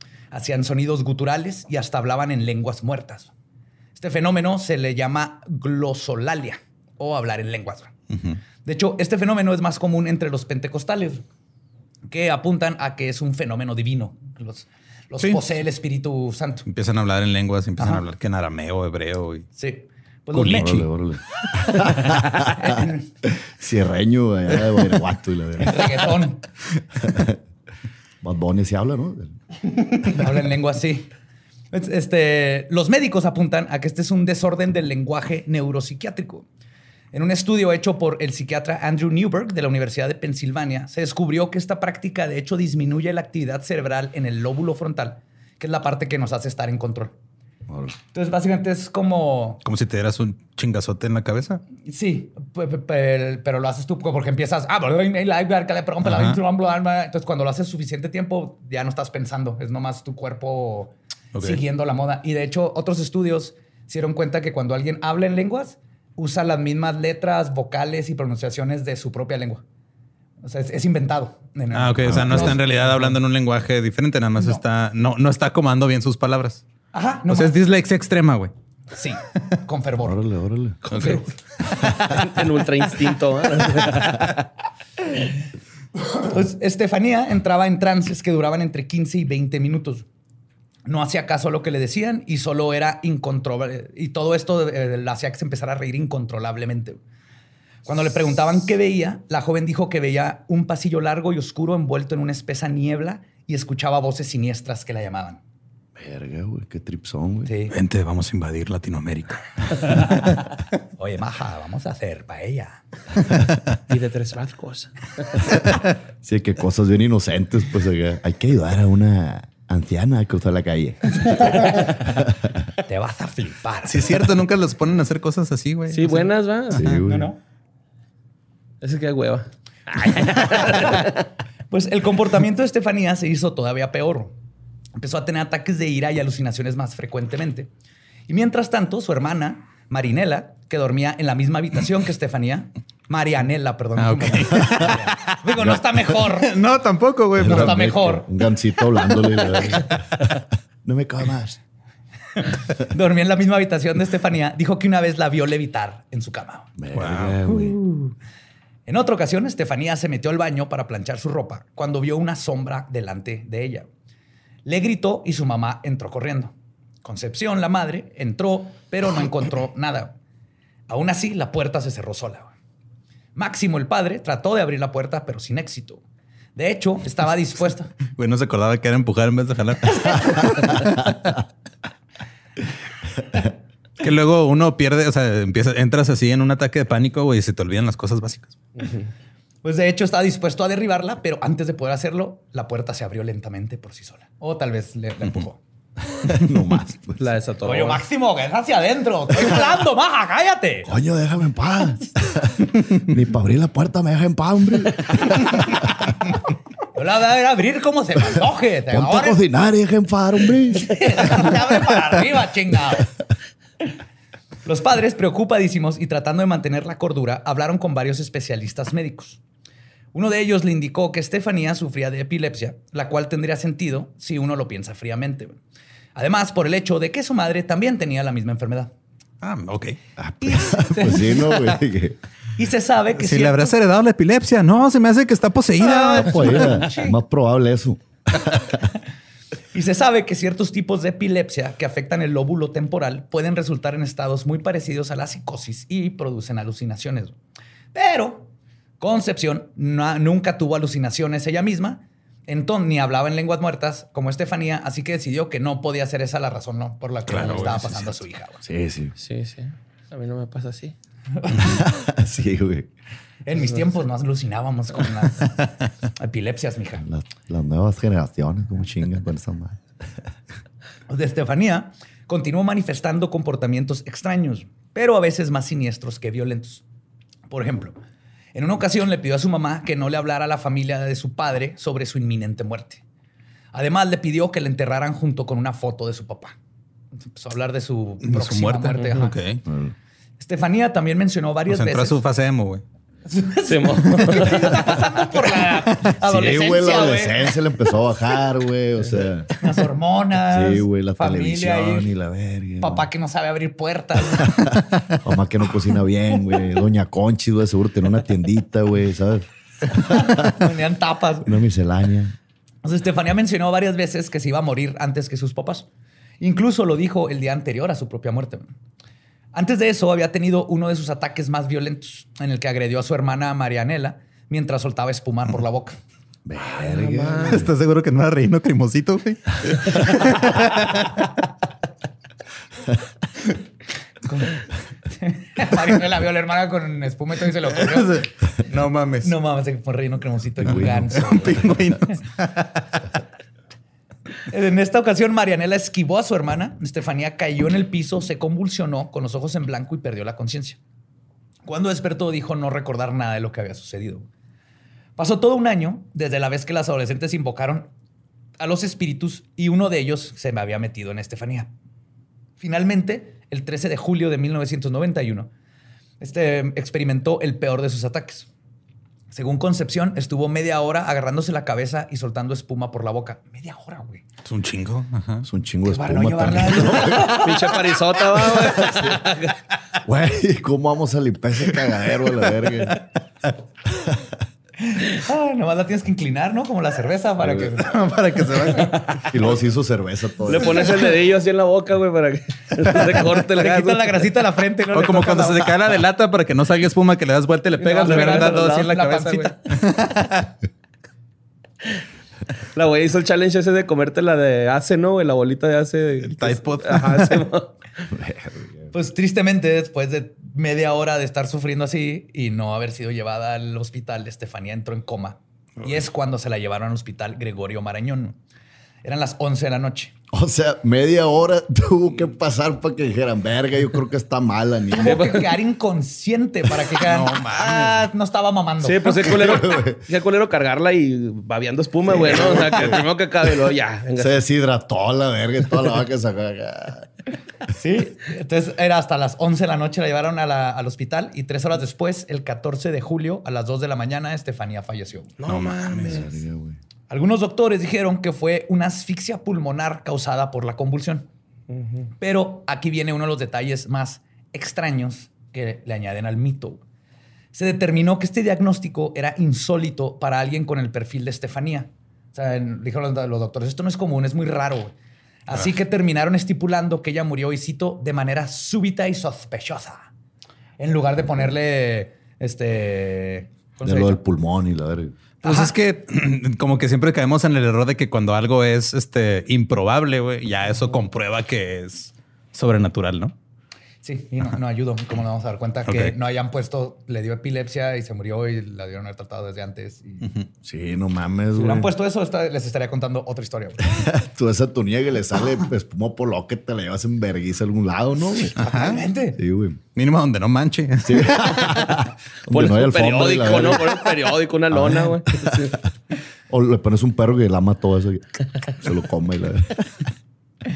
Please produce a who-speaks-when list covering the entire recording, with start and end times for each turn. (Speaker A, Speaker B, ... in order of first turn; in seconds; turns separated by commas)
Speaker A: 0.3-3.3, Speaker A: 4.0-7.9, Speaker B: 8.1-8.4, Speaker A: 8.6-11.2, Speaker A: 12.1-16.6, Speaker B: 16.7-19.5, Speaker A: 19.6-20.9, Speaker C: 20.3-26.2, Speaker A: 22.4-23.0, Speaker A: 25.6-26.4, Speaker C: 26.9-27.4, Speaker C: 28.2-29.4, Speaker A: 30.0-31.1, Speaker A: 31.7-36.5, Speaker A: 37.1-47.1, Speaker C: 47.7-47.9, Speaker A: 48.1-49.6, Speaker B: 49.6-51.6, Speaker A: 51.9-69.6, Speaker B: 56.0-56.4, Speaker B: 61.3-61.6, Speaker A: 70.4-72.6, Speaker B: 71.7-76.6, Speaker C: 72.0-72.6, Speaker A: 76.9-77.6, Speaker B: 77.3-78.5, Speaker A: 78.9-80.2, Speaker C: 80.0-81.2, Speaker A: 80.9-81.3, Speaker B: 80.9-82.2, Speaker D: 81.8-84.4, Speaker A: 86.1-90.0, Speaker A: 90.8-97.0, Speaker A: 97.8-105.4, Speaker C: 106.0-107.5, Speaker A: 107.4-107.7, Speaker B: 107.7-110.5, Speaker A: 111.0-112.8, Speaker D: 113.9-115.4, Speaker C: 115.6-122.7, Speaker A: 121.2-121.7, Speaker A: 122.8-124.2, Speaker B: 123.8-127.0, Speaker D: 125.9-127.0, Speaker C: 126.7-127.3, Speaker A: 127.0-127.4, Speaker D: 128.8-131.2, Speaker A: 130.4-131.1, Speaker A: 131.7-134.3, Speaker A: 135.0-137.7, Speaker A: 138.3-146.6, Speaker B: 144.0-145.1, Speaker B: 146.2-147.8, Speaker C: 147.4-151.6, Speaker A: 147.4-148.3, Speaker A: 152.3-156.7, Speaker C: 156.8-157.8, Speaker B: 156.9-157.4, Speaker A: 157.4-158.1, Speaker A: 158.8-163.9, Speaker A: 164.6-166.5, Speaker A: 167.0-170.1, Speaker A: 170.9-172.5, Speaker A: 173.3-176.0, Speaker A: 176.6-177.9, Speaker B: 178.1-181.4, Speaker B: 184.0-188.8, Speaker A: 189.6-195.6, Speaker C: 196.1-197.2, Speaker D: 197.2-198.0, Speaker A: 197.6-200.9, Speaker C: 200.9-206.1, Speaker A: 206.9-209.4, Speaker C: 208.9-211.6, Speaker A: 210.8-213.1, Speaker A: 214.6-219.4, Speaker A: 220.1-225.6, Speaker A: 226.1-228.9, Speaker B: 229.4-230.0, Speaker C: 230.2-232.2, Speaker A: 230.4-231.8, Speaker A: 232.6-233.8, Speaker B: 233.2-236.8, Speaker A: 235.8-237.2, Speaker C: 236.2-238.9, Speaker A: 239.7-247.3, Speaker A: 247.9-258.6, Speaker B: 257.3-258.1, Speaker C: 258.6-259.1, Speaker D: 259.2-260.9, Speaker A: 261.4-261.8, Speaker C: 261.6-262.9, Speaker A: 263.4-267.0, Speaker C: 267.0-269.8, Speaker A: 271.1-276.8, Speaker A: 277.5-278.0, Speaker A: 278.5-283.0, Speaker A: 283.7-286.5, Speaker A: 287.2-289.4, Speaker B: 288.2-289.6, Speaker C: 289.6-289.9, Speaker A: 290.4-292.2, Speaker B: 291.7-292.8, Speaker A: 293.2-297.6, Speaker D: 293.6-294.8, Speaker B: 295.6-296.8, Speaker C: 296.2-299.6, Speaker A: 299.6-302.1, Speaker C: 300.5-303.1, Speaker A: 302.8-304.6, Speaker B: 304.7-305.1, Speaker C: 305.2-310.6, Speaker A: 309.9-311.5, Speaker C: 311.4-312.3, Speaker A: 312.8-315.9, Speaker A: 316.4-318.7, Speaker A: 319.5-326.0, Speaker C: 326.4-327.7, Speaker D: 326.8-327.6, Speaker B: 327.4-331.4, Speaker A: 334.2-338.3, Speaker B: 337.8-339.3, Speaker A: 339.2-341.6, Speaker C: 340.6-341.5, Speaker B: 340.8-343.0, Speaker A: 344.4-350.8, Speaker A: 351.6-354.3, Speaker A: 355.2-357.9, Speaker A: 358.6-361.7, Speaker A: 362.6-365.5, Speaker A: 366.2-368.5, Speaker A: 369.3-374.2, Speaker B: 374.4-375.5, Speaker C: 375.4-377.5, Speaker A: 375.8-378.9, Speaker D: 377.2-379.5, Speaker C: 378.6-379.2, Speaker C: 380.0-383.0, Speaker C: 383.9-384.4, Speaker A: 384.8-388.0, Speaker C: 387.4-387.7, Speaker B: 387.8-389.3, Speaker D: 388.8-389.3, Speaker C: 389.2-391.0, Speaker D: 390.4-394.2, Speaker B: 392.9-393.2, Speaker A: 393.2-395.8, Speaker B: 394.9-400.5, Speaker D: 397.8-398.9, Speaker A: 397.8-399.6, Speaker D: 402.7-407.7, Speaker B: 406.2-407.4, Speaker C: 408.1-408.9, Speaker A: 408.9-418.4, Speaker A: 419.0-420.1, Speaker C: 420.3-425.4, Speaker A: 424.9-429.4, Speaker D: 425.0-425.4, Speaker B: 426.9-428.1, Speaker D: 428.8-434.4, Speaker C: 429.1-430.0, Speaker C: 432.1-433.0, Speaker C: 434.2-437.1, Speaker A: 437.7-445.3, Speaker D: 445.4-446.3, Speaker B: 445.4-446.2, Speaker C: 446.0-446.8, Speaker A: 447.1-451.2, Speaker D: 451.7-452.1, Speaker A: 452.2-456.8, Speaker A: 457.5-464.9, Speaker A: 465.4-470.1, Speaker A: 470.8-474.2, Speaker C: 473.8-475.1, Speaker A: 475.4-475.7, Speaker B: 475.4-483.3, Speaker A: 484.0-490.3, Speaker B: 485.9-486.1, Speaker C: 490.6-491.9, Speaker A: 491.5-494.0, Speaker C: 493.9-498.6, Speaker A: 498.5-499.4, Speaker B: 498.6-499.0, Speaker C: 499.4-499.8, Speaker B: 499.9-501.9, Speaker C: 501.0-504.1, Speaker D: 502.5-505.8, Speaker C: 504.7-505.8, Speaker C: 506.5-510.1